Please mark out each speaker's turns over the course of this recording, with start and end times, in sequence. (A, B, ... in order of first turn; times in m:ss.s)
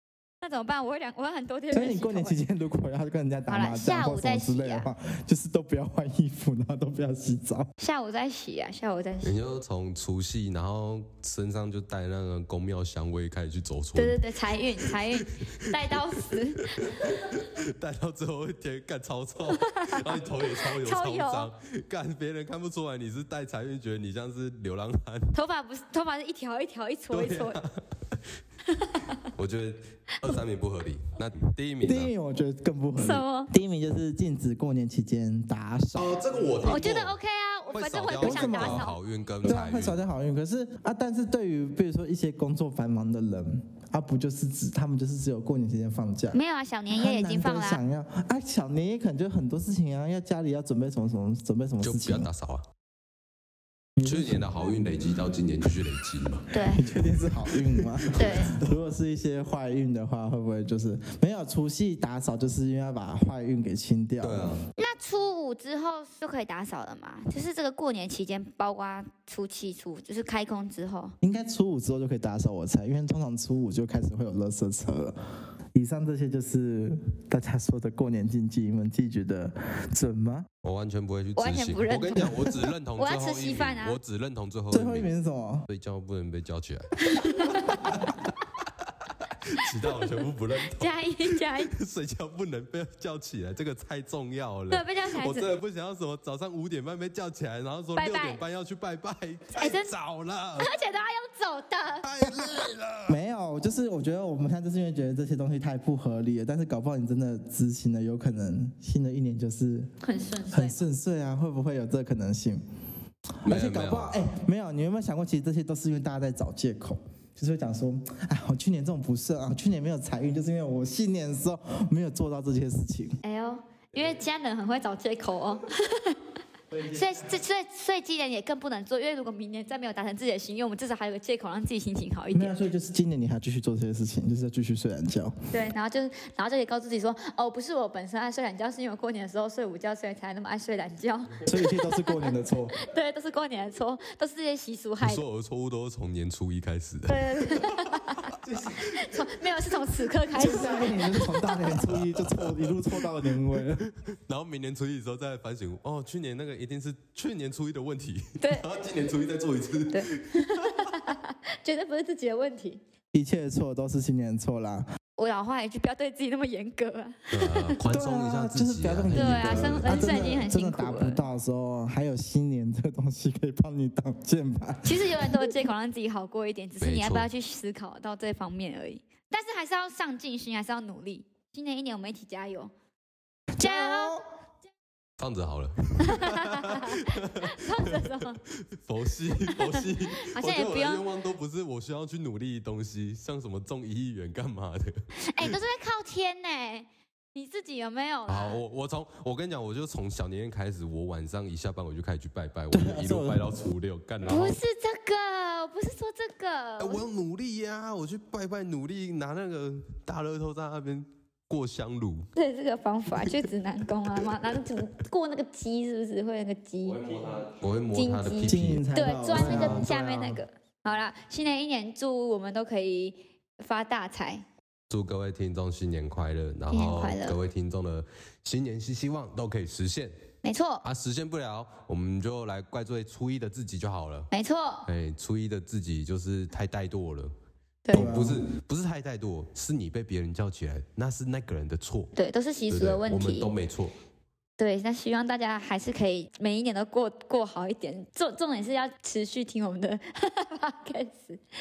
0:00.4-0:02.4 A
0:01.7-0:07.7 B
0:03.5-0:04.9 A
0:07.8-0:09.4 A
0:09.2-0:14.2 C
0:14.0-0:17.3 A
0:14.8-0:16.0 C
0:16.6-0:25.4 C
0:19.5-0:21.5 A
0:25.3-0:27.6 A
0:27.1-0:28.2 C
0:28.7-0:29.2 A
0:29.3-0:32.1 C
0:31.8-0:36.2 B
0:33.0-0:33.5 A
0:36.0-0:37.2 C
0:36.7-0:39.0 A
0:37.7-0:40.0 C
0:38.2-0:38.9 B
0:39.4-0:46.4 B
0:46.3-0:47.8 A
0:46.9-0:52.3 B
0:51.8-0:52.6 C
0:54.0-0:54.5 B
0:54.0-0:56.5 C
0:56.5-0:56.8 A
0:56.6-1:04.6 B
0:57.5-0:58.7 C
0:58.1-0:58.6 A
1:04.2-1:04.6 C
1:04.8-1:11.2 A
1:11.2-1:15.2 B
1:15.7-1:20.5 B
1:20.6-1:25.1 C
1:21.4-1:24.0 A
1:24.7-1:25.7 B
1:25.7-1:28.3 C
1:27.0-1:27.9 A
1:29.2-1:40.7 C
1:29.6-1:31.7 A
1:34.7-1:35.5 A
1:38.0-1:38.4 A
1:39.6-1:40.0 A
1:40.6-1:42.1 A
1:42.0-1:43.2 C
1:43.1-1:49.9 B
1:50.0-1:50.8 A
1:50.5-1:52.6 B
1:53.4-2:03.2 B
1:53.4-1:54.3 C
2:03.2-2:06.2 A
2:06.7-2:07.4 B
2:06.9-2:12.6 A
2:12.3-2:15.4 B
2:15.5-2:25.2 A
2:21.4-2:22.7 B
2:25.0-2:29.2 C
2:27.1-2:31.6 A
2:30.3-2:33.9 B
2:31.5-2:41.0 C
2:38.4-2:38.6 A
2:39.9-2:42.8 A
2:43.1-2:44.9 B
2:45.2-2:47.8 A
2:47.3-2:50.2 C
2:47.8-2:55.3 B
2:49.1-2:51.2 A
2:54.8-3:02.7 A
2:56.8-2:57.3 C
3:03.6-3:04.2 B
3:03.6-3:04.2 A
3:05.2-3:15.5 C
3:06.0-3:08.4 A
3:09.5-3:11.1 A
3:15.2-3:18.6 A
3:18.3-3:24.6 C
3:22.7-3:23.4 B
3:24.3-3:27.0 A
3:26.8-3:32.3 C
3:32.4-3:37.4 A
3:36.8-3:39.9 C
3:37.9-3:44.4 A
3:38.5-3:40.4 B
3:44.9-3:50.1 C
3:46.7-3:47.4 A
3:50.4-3:50.8 A
3:50.8-3:54.3 C
3:54.3-3:54.9 A
3:54.9-3:57.3 C
3:57.8-3:58.2 A
3:57.9-3:58.4 B
3:57.9-4:02.1 C
4:02.1-4:03.5 A
4:02.7-4:03.9 C
4:04.6-4:11.4 A